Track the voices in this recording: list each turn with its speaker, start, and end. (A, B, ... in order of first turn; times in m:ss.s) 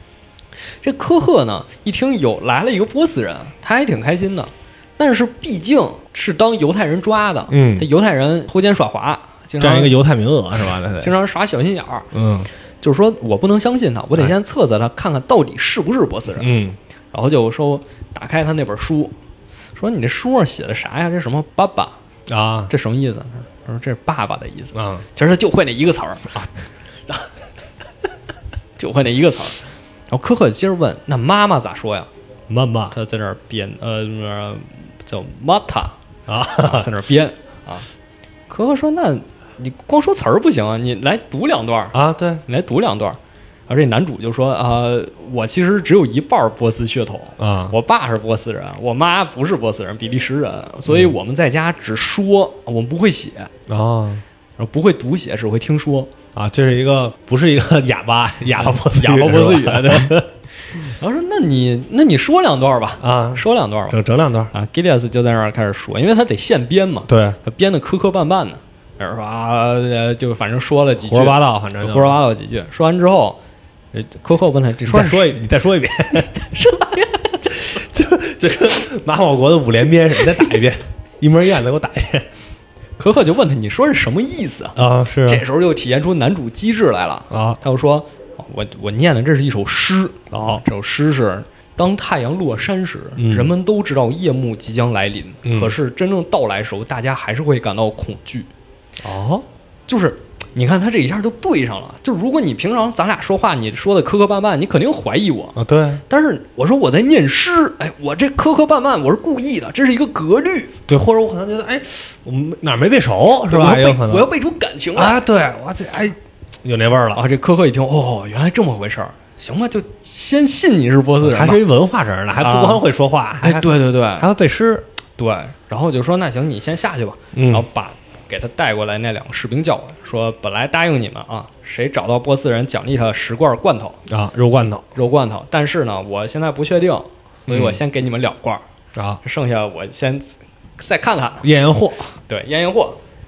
0:00.8-0:10.0 A
0:07.5-0:07.9 B
0:09.6-0:11.1 B
0:11.0-0:12.1 A
0:12.1-0:12.5 B
0:12.8-0:16.5 A
0:16.4-0:16.8 B
0:17.1-0:19.1 A
0:19.8-0:22.0 A
0:22.3-0:22.7 B
0:22.7-0:26.4 A
0:24.7-0:25.0 B
0:28.8-0:32.1 A
0:32.5-0:32.9 B
0:32.9-0:36.0 A
0:36.3-0:36.9 B
0:36.5-0:37.9 A
0:38.5-0:53.5 A
0:41.9-0:42.4 B
0:47.4-0:47.7 B
0:50.9-0:51.1 B
0:53.7-0:54.2 B
0:54.6-0:56.1 A
0:56.3-1:00.3 B
0:58.5-1:04.0 A
1:03.0-1:04.5 B
1:04.5-1:13.4 A
1:07.1-1:07.4 B
1:11.0-1:12.2 B
1:13.9-1:15.4 A
1:14.9-1:16.5 B
1:16.5-1:17.5 A
1:17.5-1:22.2 B
1:23.0-1:38.5 A
1:24.8-1:25.4 B
1:27.3-1:27.6 B
1:30.3-1:30.6 B
1:33.2-1:33.5 B
1:35.4-1:35.7 B
1:39.0-1:39.4 B
1:39.9-1:45.6 A
1:45.6-1:46.0 B
1:46.1-1:50.7 A
1:50.9-1:54.3 B
1:53.5-1:55.2 A
1:54.9-1:57.2 B
1:57.1-2:01.6 A
2:01.2-2:04.9 B
2:02.4-2:02.8 A
2:03.4-2:04.3 A
2:05.2-2:14.0 A
2:07.3-2:07.6 B
2:14.1-2:14.8 B
2:14.9-2:18.6 A
2:17.5-2:17.8 B
2:18.9-2:19.2 B
2:19.2-2:21.4 A
2:21.4-2:22.1 B
2:22.3-2:23.0 A